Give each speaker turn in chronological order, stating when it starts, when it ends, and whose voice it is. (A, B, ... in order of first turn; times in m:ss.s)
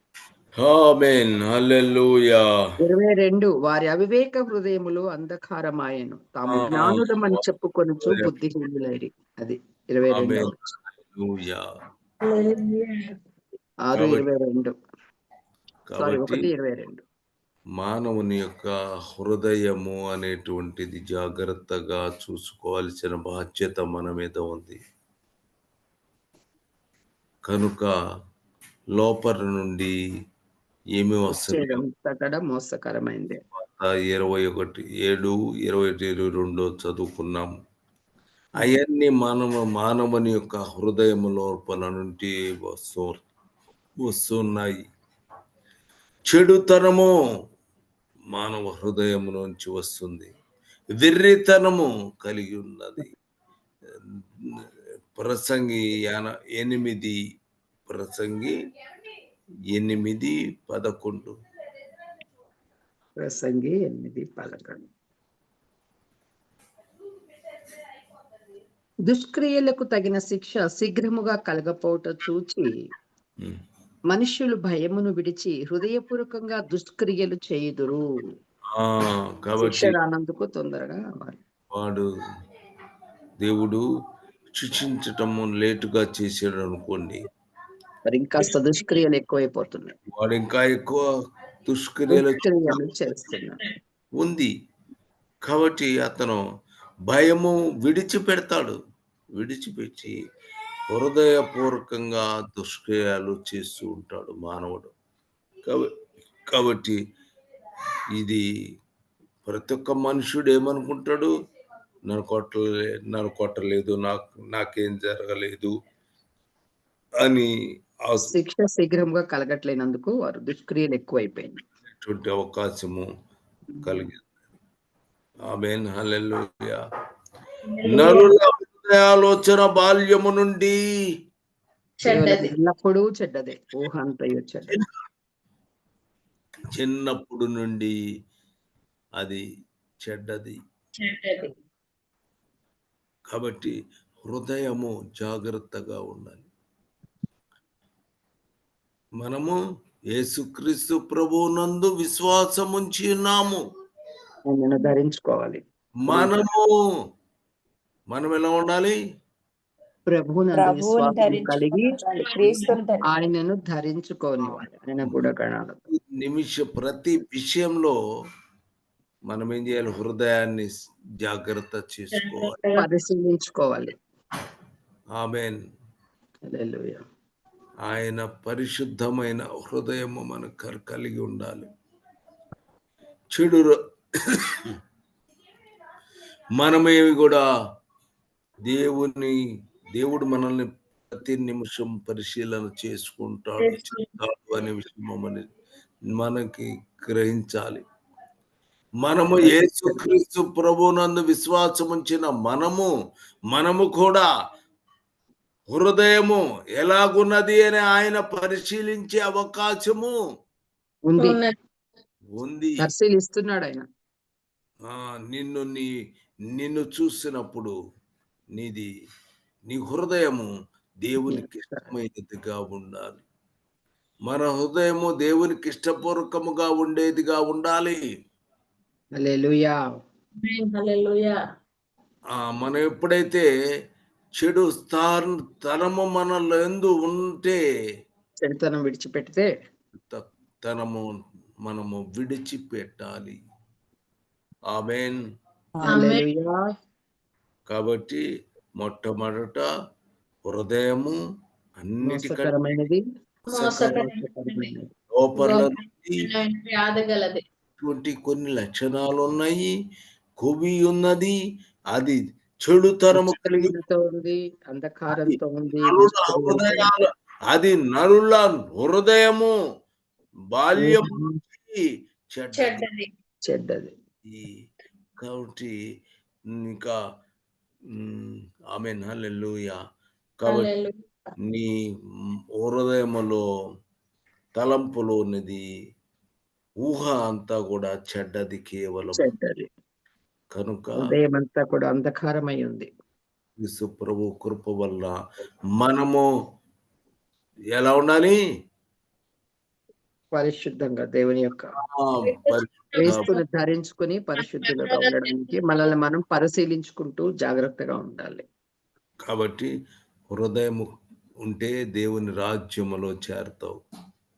0:00.6-0:02.4 A
0:02.8-0:10.5 B
0:06.5-0:07.4 A
0:10.1-0:11.6 A
0:12.2-0:13.1 C
0:13.9-0:14.7 B
0:13.9-0:14.2 A
0:15.9-0:16.5 A
0:16.0-0:17.0 B
0:17.8-0:24.8 A
0:27.5-0:27.9 A
0:29.0-0:29.9 A
0:31.0-0:31.8 A
0:31.3-0:33.4 B
0:33.5-0:37.5 A
0:38.6-0:43.2 A
0:44.0-0:44.8 A
0:46.3-0:47.1 A
0:48.3-0:50.3 A
0:51.0-0:53.1 A
0:54.2-0:54.6 A
0:55.2-0:57.2 A
0:57.9-0:58.5 A
0:59.7-1:01.3 A
1:03.2-1:04.9 B
1:09.1-1:12.7 B
1:14.1-1:18.0 B
1:18.7-1:19.9 A
1:19.6-1:21.4 B
1:21.7-1:22.0 A
1:23.4-1:23.8 A
1:24.6-1:27.2 A
1:28.1-1:29.9 B
1:30.1-1:31.0 A
1:31.7-1:32.9 A
1:32.1-1:33.6 B
1:34.2-1:34.5 A
1:35.5-1:36.4 A
1:37.1-1:38.8 A
1:39.4-1:40.1 A
1:40.9-1:44.9 A
1:45.6-1:45.9 A
1:46.5-1:47.0 A
1:48.2-1:48.4 A
1:49.4-1:51.3 A
1:52.1-1:55.7 A
1:57.2-1:57.5 A
1:58.2-2:01.6 B
2:01.9-2:03.1 A
2:03.8-2:04.0 B
2:03.8-2:04.3 A
2:05.5-2:06.8 A
2:07.7-2:08.3 C
2:07.9-2:10.8 A
2:12.0-2:12.5 C
2:12.0-2:14.8 B
2:16.8-2:17.9 A
2:20.0-2:20.6 A
2:21.0-2:21.5 C
2:23.3-2:23.7 A
2:24.2-2:26.5 A
2:29.2-2:29.6 A
2:30.1-2:33.6 A
2:34.5-2:36.3 B
2:36.0-2:36.7 A
2:38.1-2:38.9 A
2:40.1-2:41.9 B
2:40.5-2:43.0 D
2:42.1-2:43.0 C
2:43.1-2:45.8 B
2:45.9-2:47.9 A
2:49.3-2:52.6 A
2:52.1-2:52.9 C
2:52.7-2:53.9 B
2:55.2-2:55.6 A
2:56.5-2:57.0 B
2:57.9-3:01.7 A
3:03.3-3:03.8 A
3:04.3-3:04.7 A
3:06.6-3:07.4 A
3:08.7-3:09.4 A
3:10.0-3:15.5 A
3:13.6-3:14.1 C
3:16.1-3:17.8 A
3:19.0-3:22.9 A
3:19.4-3:20.0 B
3:23.5-3:24.2 A
3:25.7-3:30.1 A
3:31.1-3:31.4 B
3:31.2-3:31.5 C
3:32.4-3:32.8 A
3:32.8-3:33.8 B
3:34.9-3:35.9 A
3:36.5-3:37.7 A
3:38.6-3:38.9 A
3:39.7-3:40.5 A
3:41.0-3:43.2 A
3:41.2-3:41.9 B
3:44.3-3:48.0 A
3:49.1-3:49.7 B
3:50.4-3:51.4 C
3:52.3-3:53.5 A
3:54.4-3:57.6 A
3:58.4-3:59.5 B
4:00.0-4:03.4 A
4:04.7-4:05.2 A
4:05.8-4:06.5 B
4:05.8-4:06.2 C
4:07.7-4:08.2 A
4:08.8-4:09.6 A
4:10.5-4:11.2 A
4:11.8-4:12.5 A
4:12.0-4:13.0 B
4:13.5-4:14.7 C
4:13.5-4:14.0 A
4:13.6-4:14.9 B
4:15.2-4:16.2 A
4:15.4-4:17.4 C
4:17.8-4:19.7 A
4:20.4-4:21.3 A
4:21.9-4:23.7 A
4:23.1-4:26.9 B
4:25.2-4:29.5 A
4:30.5-4:31.8 A
4:30.8-4:31.4 B
4:32.3-4:32.8 A
4:32.6-4:33.1 C
4:33.5-4:33.9 B
4:34.2-4:34.6 A
4:35.2-4:35.7 A
4:36.6-4:36.9 A
4:37.9-4:39.8 A
4:40.4-4:40.7 A
4:40.5-4:40.9 C
4:42.6-4:43.4 A
4:44.6-4:45.6 A
4:46.8-4:49.2 A
4:49.2-4:49.7 B
4:50.5-4:51.0 A
4:51.0-4:52.9 B
4:53.6-4:55.2 A
4:55.8-4:56.2 A
4:57.7-4:58.4 A
5:00.3-5:01.7 B
5:01.8-5:03.3 A
5:02.2-5:03.4 C
5:03.0-5:08.4 B
5:04.4-5:05.5 C
5:09.2-5:09.7 A
5:10.3-5:10.9 A
5:11.4-5:13.8 A